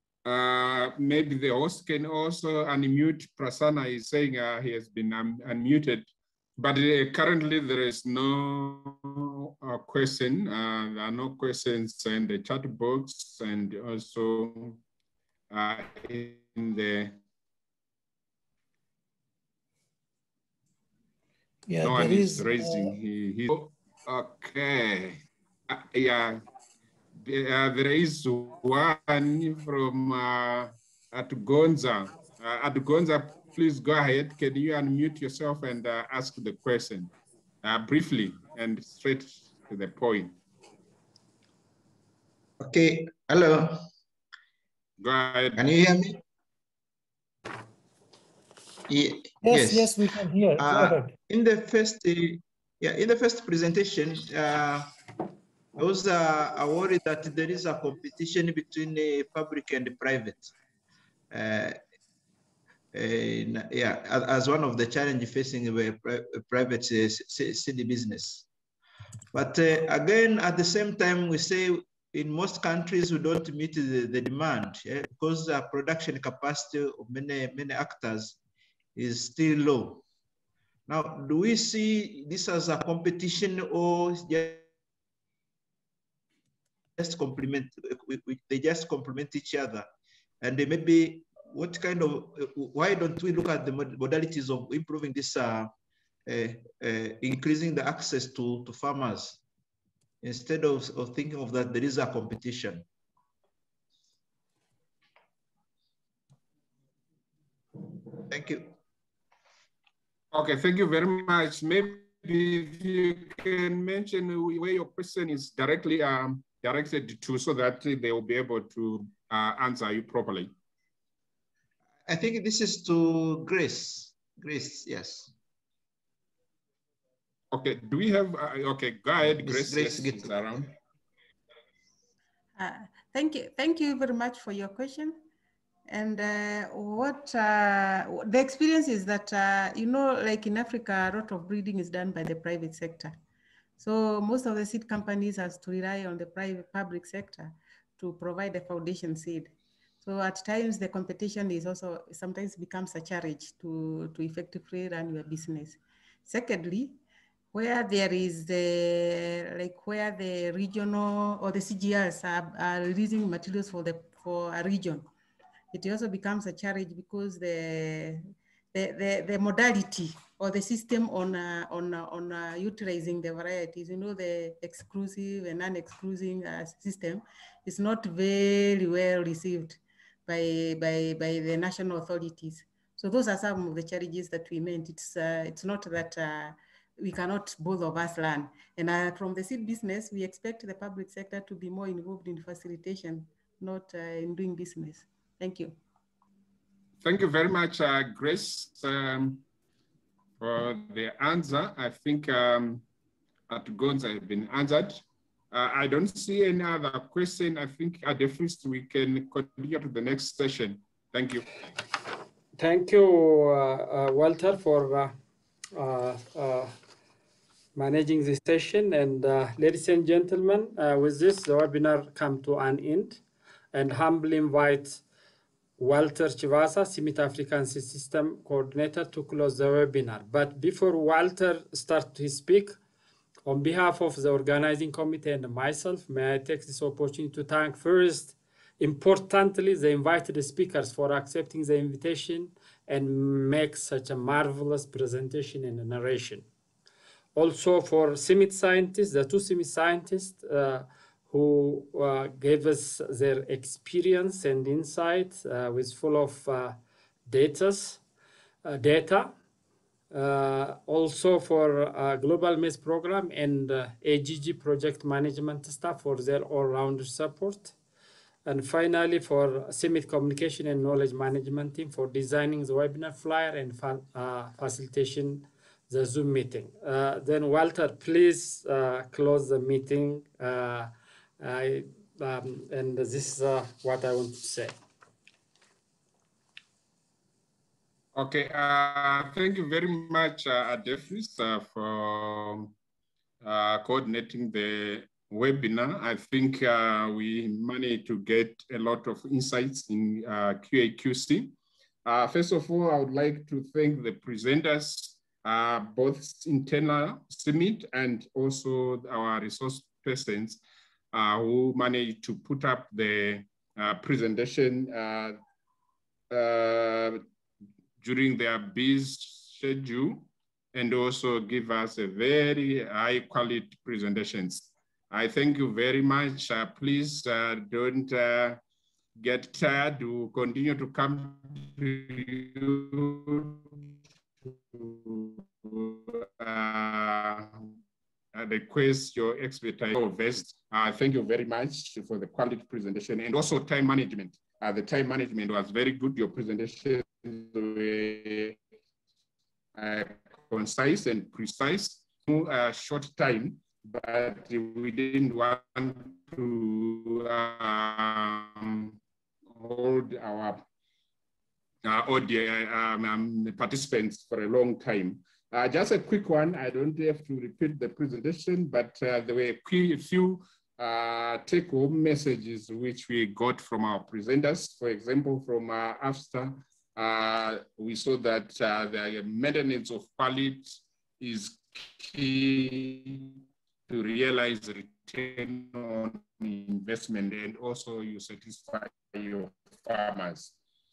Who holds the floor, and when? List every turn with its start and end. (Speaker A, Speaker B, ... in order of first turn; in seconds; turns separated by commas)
Speaker A: 0.2-14.8, Speaker A: 15.5-17.2, Speaker B: 21.7-22.9, Speaker A: 21.8-26.4, Speaker A: 27.2-40.4, Speaker C: 42.6-43.9, Speaker A: 45.0-45.6, Speaker C: 45.6-46.2, Speaker C: 48.9-50.0, Speaker B: 49.4-51.1, Speaker C: 50.6-55.0, Speaker C: 55.8-60.5, Speaker C: 61.3-61.8, Speaker C: 62.9-68.5, Speaker C: 69.3-78.4, Speaker C: 79.0-80.0, Speaker C: 80.9-84.7, Speaker C: 87.0-89.9, Speaker C: 90.4-95.7, Speaker C: 96.3-99.4, Speaker C: 100.2-102.9, Speaker C: 108.1-108.7, Speaker A: 110.3-120.5, Speaker C: 122.1-125.3, Speaker A: 127.5-130.7, Speaker C: 129.2-130.7, Speaker D: 132.6-135.2, Speaker D: 135.9-143.2, Speaker D: 143.8-157.0, Speaker D: 157.5-165.1, Speaker D: 165.7-195.8, Speaker A: 197.0-199.4, Speaker A: 200.4-202.9, Speaker A: 203.5-211.4, Speaker E: 212.6-215.2, Speaker E: 215.7-216.7, Speaker E: 217.8-223.2, Speaker E: 223.7-225.0, Speaker E: 225.8-232.8, Speaker E: 233.4-246.5, Speaker E: 247.3-258.0, Speaker E: 258.6-259.3, Speaker E: 260.1-267.8, Speaker E: 268.4-284.7, Speaker A: 288.1-292.7, Speaker A: 293.4-310.6, Speaker A: 311.1-315.4, Speaker A: 316.3-317.2, Speaker A: 318.0-328.6, Speaker A: 329.2-333.6, Speaker A: 334.5-337.7, Speaker A: 338.3-348.6, Speaker A: 349.8-359.0, Speaker A: 359.5-360.6, Speaker A: 361.8-390.6